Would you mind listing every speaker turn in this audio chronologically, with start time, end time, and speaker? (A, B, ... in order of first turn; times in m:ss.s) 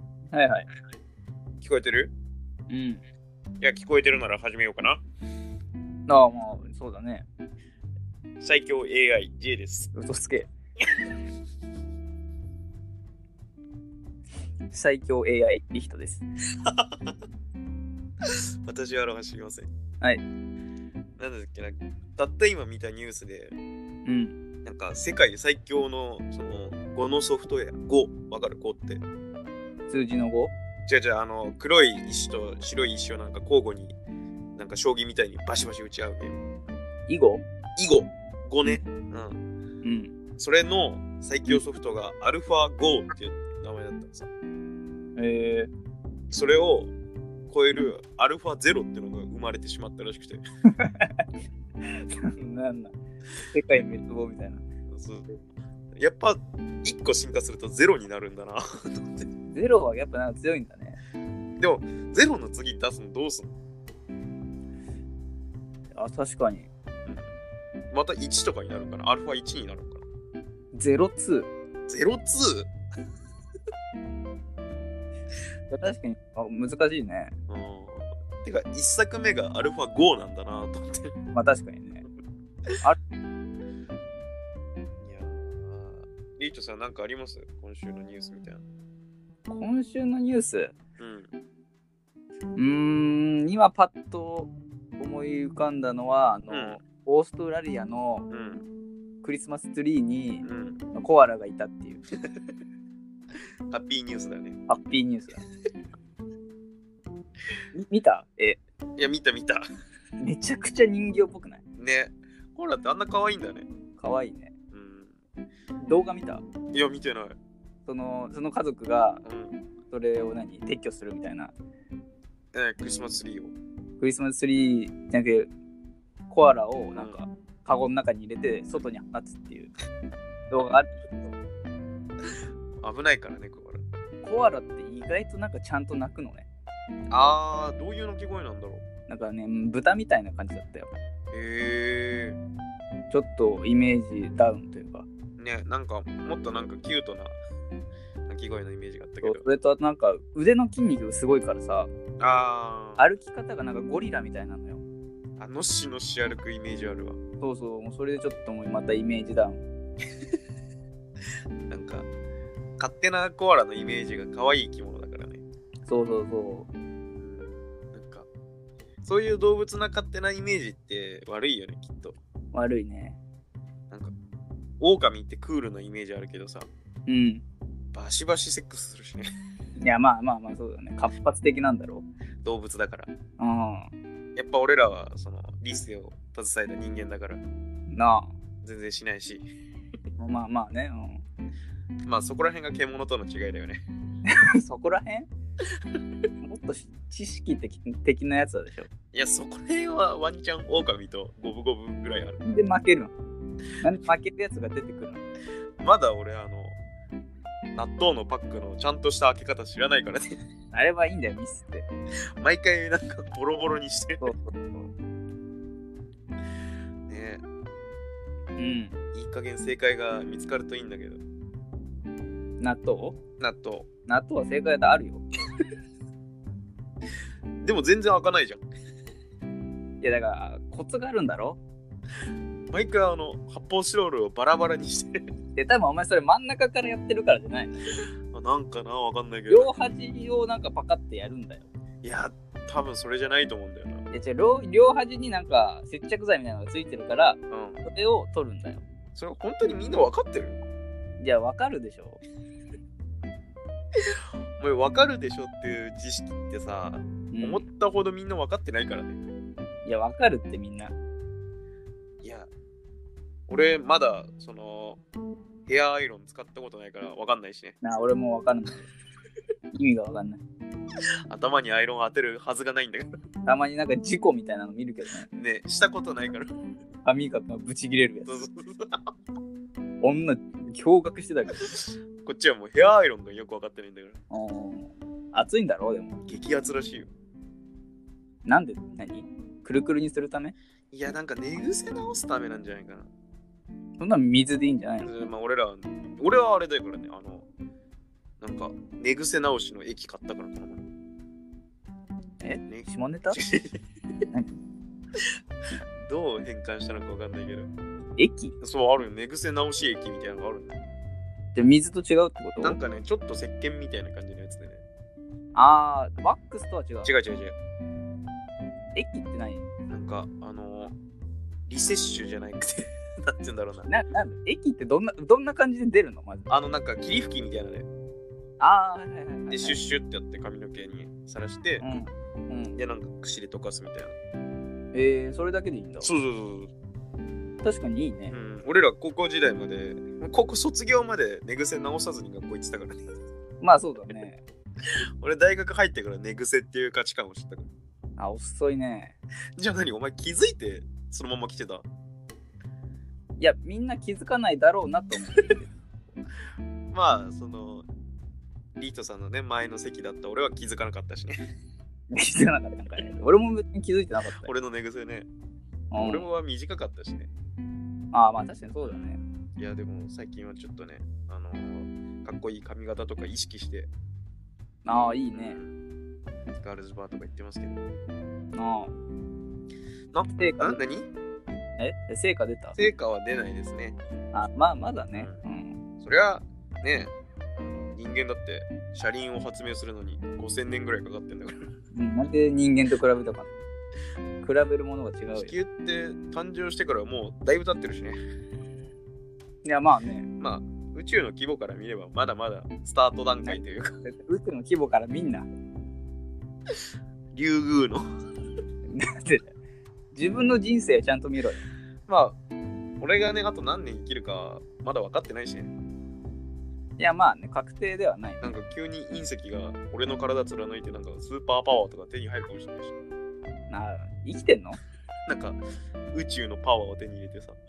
0:00.3-0:00.7 A
0:01.6-0:02.1 B
0:02.7-0:03.0 A
0:03.6-0:05.0 B
0:06.1-0:07.2 A
0:08.4-0:09.9 B
0:09.9-0:10.5 A
0:14.7-0:16.2 A
0:16.6-0:17.2 B
0:18.2-0:19.7 B
0:21.2-0:23.5 B
0:24.0-0:24.4 A
0:24.6-0:29.0 B
0:29.9-0:30.5 A
0:30.9-0:34.0 B
0:34.5-0:36.4 B
0:37.1-0:37.4 A
0:37.8-0:39.4 B
0:39.8-0:40.1 A
0:40.4-0:44.3 B
0:45.2-0:45.7 A
0:46.3-0:46.9 B
0:47.5-0:50.4 B
0:50.7-0:51.2 A
0:51.8-0:54.6 A
0:54.9-0:55.3 B
0:55.9-0:59.3 B
0:59.5-1:01.0 A
1:01.6-1:03.5 B
1:05.9-1:06.7 A
1:07.9-1:10.0 B
1:10.7-1:11.5 A
1:11.9-1:12.7 B
1:15.7-1:17.3 A
1:17.5-1:21.1 B
1:21.3-1:22.0 A
1:25.0-1:28.6 B
1:29.5-1:30.7 A
1:31.0-1:31.3 B
1:32.6-1:38.3 A
1:36.5-1:36.8 B
1:38.3-1:38.6 B
1:39.2-1:42.0 A
1:40.4-1:40.8 B
1:42.2-1:42.5 B
1:43.7-1:44.6 B
1:44.7-1:45.4 A
1:47.7-1:48.6 A
1:49.0-1:49.6 B
1:50.2-1:51.6 A
1:51.8-1:53.7 B
1:54.0-1:54.5 A
1:54.7-1:55.2 B
1:55.8-1:56.4 A
1:56.7-1:57.4 B
1:57.8-1:59.2 A
1:59.2-1:59.6 B
1:59.9-2:01.5 A
2:02.5-2:03.5 B
2:04.0-2:05.5 A
2:06.3-2:09.7 A
2:10.5-2:11.3 A
2:12.8-2:13.8 B
2:14.2-2:16.4 A
2:17.1-2:18.8 B
2:19.1-2:20.9 A
2:21.3-2:22.4 B
2:23.1-2:25.1 A
2:25.4-2:27.4 B
2:28.3-2:29.4 B
2:29.2-2:31.9 A
2:32.2-2:33.0 B
2:33.0-2:34.8 A
2:35.4-2:37.2 B
2:37.4-2:39.6 A
2:41.7-2:42.1 B
2:42.8-2:45.4 B
2:45.8-2:46.7 A
2:47.1-2:48.3 B
2:49.0-2:52.2 B
2:52.5-2:53.2 A
2:54.8-2:56.7 B
2:57.1-2:57.4 A
2:57.9-2:59.3 B
2:59.8-3:02.0 A
3:02.4-3:03.1 B
3:03.4-3:03.9 A
3:04.3-3:07.4 B
3:07.9-3:08.3 A
3:08.6-3:09.5 B
3:10.2-3:11.2 A
3:12.0-3:13.8 B
3:14.2-3:15.3 A
3:16.4-3:18.9 A
3:19.1-3:22.4 B
3:22.4-3:23.1 A
3:23.8-3:25.2 A
3:25.8-3:26.8 B
3:27.7-3:30.3 B
3:30.7-3:31.8 A
3:32.4-3:34.3 B
3:34.2-3:34.9 A
3:37.1-3:37.4 B
3:38.6-3:38.9 A
3:39.1-3:41.2 B
3:42.6-3:43.2 A
3:43.4-3:43.9 B
3:44.1-3:45.2 A
3:47.6-3:48.6 B
3:50.0-3:51.6 A
3:52.7-3:55.2 B
3:55.6-3:58.0 A
3:58.2-3:59.7 B
3:59.5-4:01.7 A
4:02.0-4:04.0 B
4:04.1-4:08.8 A
4:07.5-4:07.8 B
4:09.1-4:10.6 B
4:11.2-4:12.2 A
4:14.0-4:19.2 B
4:17.3-4:17.6 A
4:19.8-4:20.9 A
4:22.2-4:22.5 B
4:23.5-4:25.0 B
4:25.7-4:27.8 B
4:27.8-4:28.9 A
4:29.7-4:30.4 A
4:31.3-4:33.2 B
4:33.4-4:35.3 A
4:35.3-4:36.5 B
4:37.0-4:38.4 A
4:38.3-4:39.1 B
4:40.0-4:41.7 A
4:42.2-4:44.2 B
4:44.3-4:46.2 A
4:46.2-4:47.1 B
4:48.4-4:50.5 A
4:50.9-4:53.1 B
4:54.0-4:55.1 A
4:55.0-4:57.4 B
4:58.4-5:00.9 B
5:02.4-5:03.4 A
5:02.7-5:03.8 B
5:04.3-5:04.6 A
5:06.0-5:07.7 B
5:08.2-5:08.5 A
5:08.6-5:10.8 B
5:11.5-5:12.8 A
5:12.6-5:14.8 B
5:15.5-5:17.1 A
5:17.0-5:17.5 B
5:18.9-5:19.6 A
5:19.9-5:20.9 B
5:21.7-5:23.9 B
5:23.9-5:26.5 A
5:26.5-5:27.9 B
5:28.6-5:29.8 A
5:29.5-5:31.8 B
5:31.8-5:32.8 A
5:32.8-5:34.1 B
5:34.9-5:36.1 A
5:36.0-5:36.7 B
5:37.6-5:38.4 A
5:38.3-5:43.0 B
5:43.6-5:44.4 A
5:45.2-5:47.7 B
5:48.2-5:49.2 A
5:49.6-5:51.8 B
5:53.4-5:55.7 A
5:56.9-5:57.8 B
5:58.8-6:01.4 B
6:02.1-6:04.5 A
6:04.4-6:05.3 B
6:05.9-6:06.3 A
6:06.0-6:07.3 B
6:08.1-6:09.2 A
6:09.6-6:13.9 B
6:14.8-6:15.6 A
6:15.3-6:15.8 B
6:16.6-6:17.8 B
6:18.5-6:18.9 A
6:20.1-6:21.1 B
6:20.3-6:20.8 A
6:21.8-6:22.8 A
6:22.8-6:24.0 B
6:24.3-6:25.8 A
6:25.1-6:25.4 B
6:26.0-6:31.7 B
6:31.9-6:33.5 A
6:34.4-6:35.5 A
6:35.3-6:38.2 B
6:39.6-6:40.3 A
6:40.4-6:44.0 B
6:43.4-6:45.5 A
6:47.3-6:48.0 B
6:48.8-6:49.5 A
6:50.1-6:51.6 A
6:52.1-6:52.4 B
6:53.0-6:55.7 B
6:57.0-6:58.4 A
6:58.4-7:02.9 B
7:03.7-7:04.8 A
7:05.3-7:05.6 B
7:06.1-7:07.6 B